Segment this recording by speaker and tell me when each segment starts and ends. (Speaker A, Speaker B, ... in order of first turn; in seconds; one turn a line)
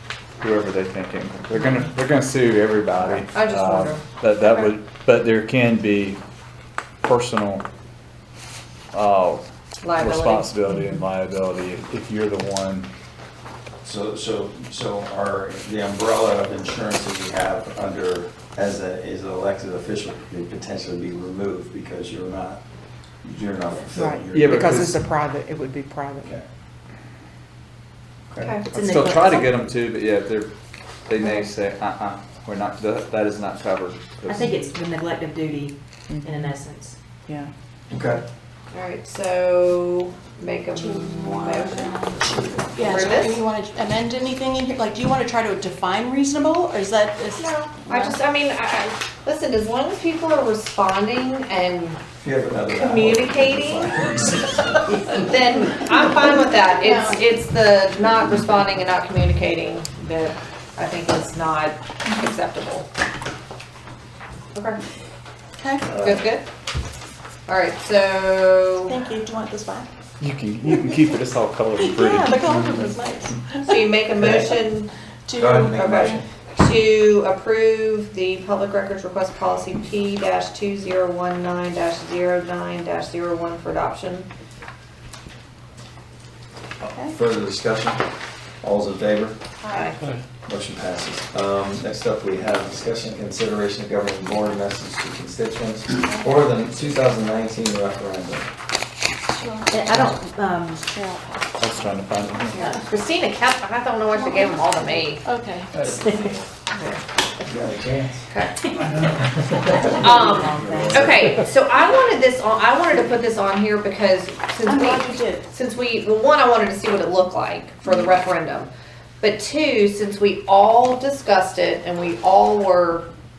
Speaker A: 0.4-6.2
Speaker B: 3.3-4.7
Speaker A: 7.0-7.7
Speaker A: 8.9-9.4
Speaker B: 9.8-10.5
Speaker A: 9.9-12.9
Speaker C: 13.8-22.6
Speaker C: 23.2-24.9
Speaker D: 23.9-26.3
Speaker A: 24.3-25.0
Speaker C: 28.3-28.6
Speaker B: 28.4-28.6
Speaker E: 28.7-29.5
Speaker A: 28.7-30.5
Speaker A: 31.1-34.5
Speaker E: 34.3-37.0
Speaker D: 36.1-36.6
Speaker C: 37.9-38.2
Speaker B: 38.7-41.9
Speaker F: 40.8-48.2
Speaker B: 42.8-43.4
Speaker B: 47.4-52.0
Speaker C: 52.2-55.0
Speaker B: 52.8-54.2
Speaker B: 54.9-62.9
Speaker F: 56.7-57.2
Speaker B: 64.5-64.8
Speaker F: 65.6-66.0
Speaker C: 65.8-66.2
Speaker B: 66.0-66.5
Speaker B: 67.5-69.0
Speaker F: 68.9-69.9
Speaker A: 70.2-72.9
Speaker F: 71.8-73.8
Speaker B: 73.6-74.9
Speaker C: 74.2-74.5
Speaker F: 75.3-76.2
Speaker C: 75.4-76.2
Speaker B: 75.7-84.3
Speaker F: 86.8-87.2
Speaker C: 86.9-88.0
Speaker C: 88.6-89.4
Speaker F: 89.6-89.9
Speaker B: 89.7-90.0
Speaker C: 90.5-98.5
Speaker F: 96.0-96.4
Speaker F: 99.4-100.2
Speaker E: 99.7-100.8
Speaker F: 100.8-101.5
Speaker A: 101.6-102.6
Speaker B: 102.5-105.2
Speaker F: 102.5-102.8
Speaker F: 104.1-105.8
Speaker E: 105.8-106.4
Speaker B: 106.7-107.0
Speaker C: 107.5-108.3
Speaker B: 108.3-108.6
Speaker C: 109.0-109.8
Speaker E: 109.8-111.0
Speaker B: 110.0-123.1
Speaker F: 110.1-110.3
Speaker D: 110.4-110.9
Speaker F: 114.6-115.5